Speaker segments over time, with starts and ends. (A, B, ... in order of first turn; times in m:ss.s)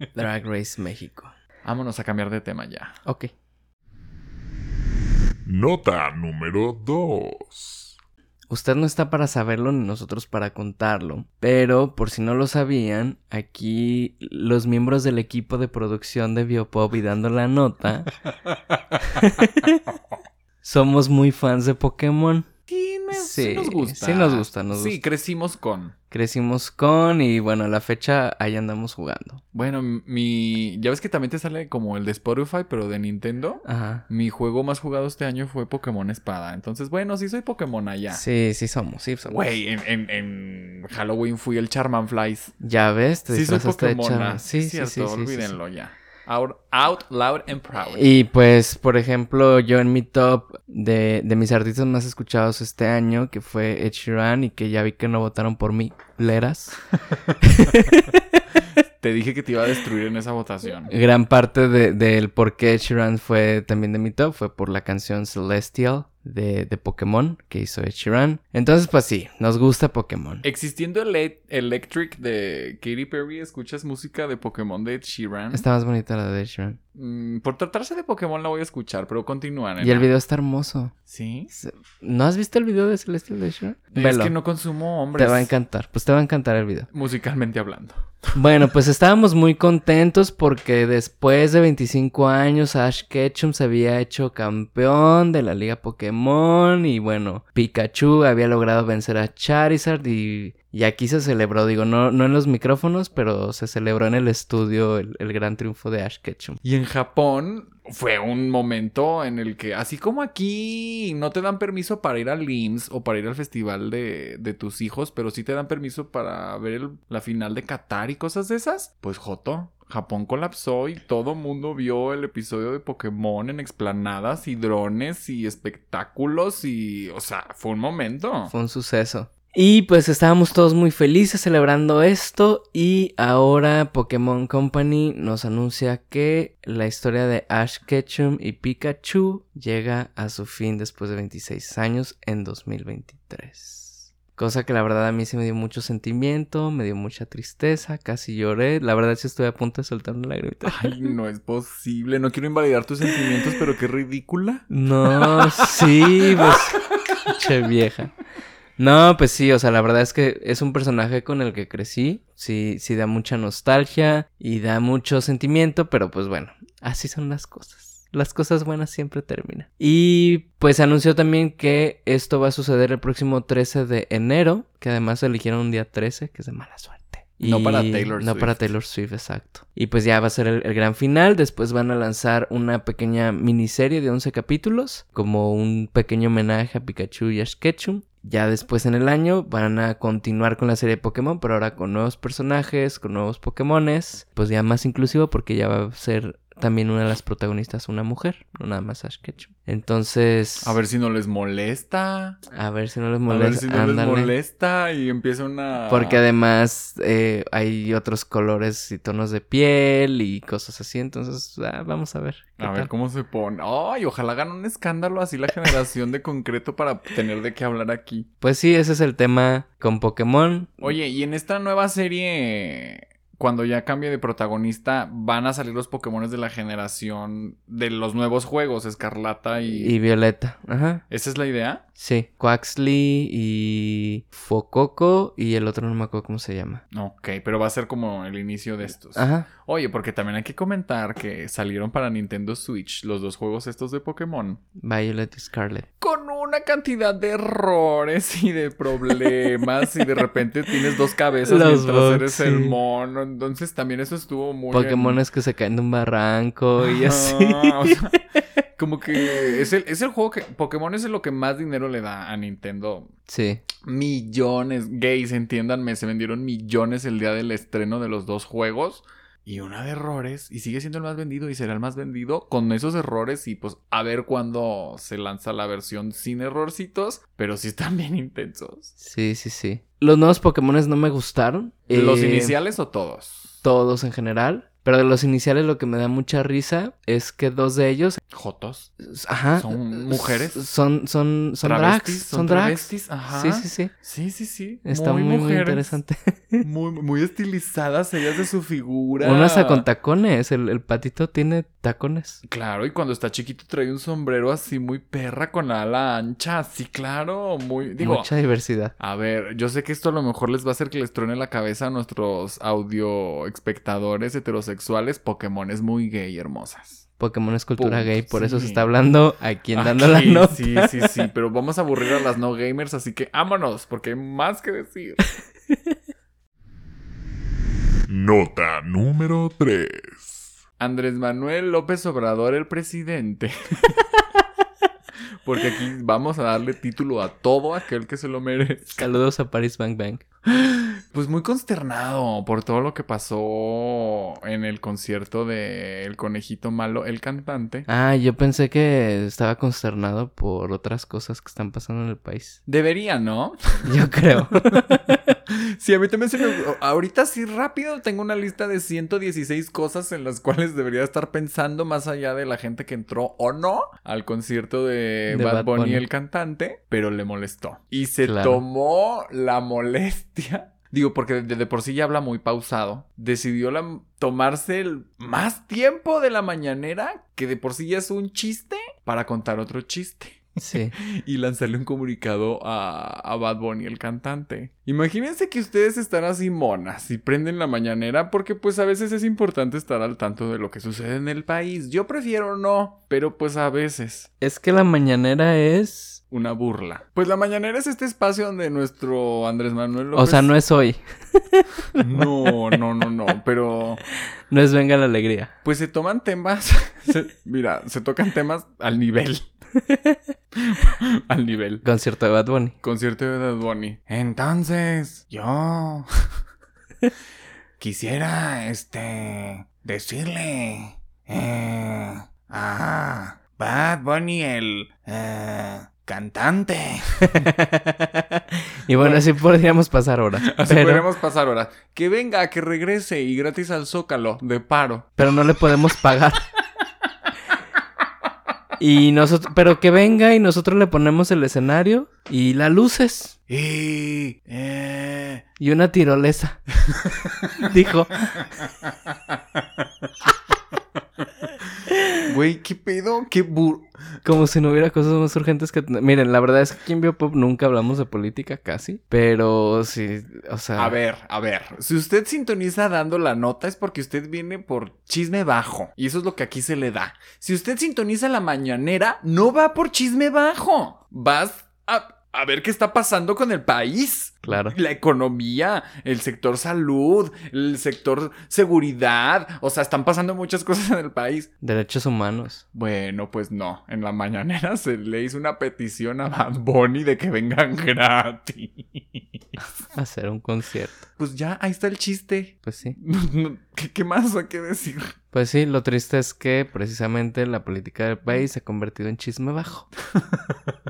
0:00.2-0:01.3 A
0:01.6-0:03.0 B
0:03.0-0:03.3 A
0:05.4-0:07.9 C
0:08.5-0:18.1 A
0:19.0-0:19.8 A
0:20.6-0:22.5 A
0:22.7-0:25.9 B
0:23.1-0:25.0 A
0:26.1-0:29.4 A
0:29.5-0:38.2 B
0:33.6-0:34.0 A
0:38.1-0:39.4 A
0:39.3-0:42.5 B
0:42.6-0:45.5 A
0:43.3-0:48.1 B
0:47.9-0:56.8 A
0:57.4-0:58.4 A
0:59.0-1:00.9 B
1:00.9-1:10.4 A
1:10.4-1:15.6 B
1:15.5-1:16.8 A
1:16.9-1:20.1 B
1:19.8-1:20.9 A
1:21.1-1:21.5 B
1:21.5-1:24.3 A
1:23.9-1:25.5 B
1:25.1-1:26.9 A
1:26.9-1:28.4 B
1:28.3-1:46.6 A
1:46.6-2:08.5 B
2:08.5-2:30.9 A
2:30.6-2:36.7 B
2:34.7-2:38.1 A
2:38.8-3:20.8 A
2:57.4-2:58.6 B
3:20.6-3:22.4 B
3:22.5-3:24.3 A
3:23.3-3:26.2 B
3:25.9-3:32.9 A
3:32.6-3:38.3 B
3:38.4-3:40.9 A
3:40.8-3:49.9 B
3:49.7-3:51.0 A
3:51.1-3:51.8 B
3:52.0-3:56.8 A
3:56.9-4:04.6 B
3:59.2-3:59.5 A
4:04.8-4:05.8 A
4:06.0-4:15.2 B
4:11.4-4:12.8 A
4:14.7-4:18.2 A
4:16.8-4:18.1 B
4:18.8-4:23.1 B
4:19.2-4:19.5 A
4:23.3-4:23.6 A
4:23.8-4:38.9 B
4:39.0-4:42.6 A
4:41.9-4:43.6 B
4:43.6-4:48.2 A
4:48.3-4:48.9 B
4:49.0-4:53.9 A
4:49.6-4:50.6 B
4:51.6-4:56.0 B
4:54.8-4:56.6 A
4:56.6-4:59.8 B
4:59.2-5:02.4 A
5:02.4-5:08.3 B
5:08.0-5:08.9 A
5:09.0-5:17.0 B
5:17.2-5:21.1 A
5:17.8-5:18.9 B
5:19.7-5:25.2 B
5:28.0-5:30.5 C
5:30.8-5:34.0 B
5:35.4-5:39.2 B
5:38.9-5:40.2 A
5:40.5-5:47.9 B
5:47.9-5:52.6 A
5:52.6-5:54.0 B
5:53.8-5:55.2 A
5:55.5-6:34.3 B
6:05.3-6:06.0 A
6:08.2-6:08.6 A
6:20.6-6:20.9 A
6:34.4-6:36.2 A
6:36.3-6:40.5 B
6:40.1-6:42.7 A
6:42.0-6:44.0 B
6:44.5-6:45.5 A
6:45.6-6:49.4 B
6:49.8-6:50.2 A
6:50.5-6:51.8 B
6:51.8-6:52.8 A
6:52.8-6:56.3 B
6:57.8-7:07.5 B
7:07.2-7:11.0 A
7:08.9-7:09.3 B
7:10.4-7:15.3 B
7:15.2-7:16.4 A
7:18.8-7:23.3 A
7:23.5-7:25.4 B
7:25.6-7:26.6 A
7:27.0-7:27.3 B
7:27.6-7:28.4 A
7:32.2-7:33.9 B
7:34.2-7:41.0 A
7:40.8-8:01.5 B
7:54.5-7:54.8 A
8:01.6-8:02.6 A
8:02.7-8:09.7 B
8:09.9-8:11.0 A
8:11.2-8:15.1 B
8:12.6-8:13.0 A
8:15.3-8:19.9 A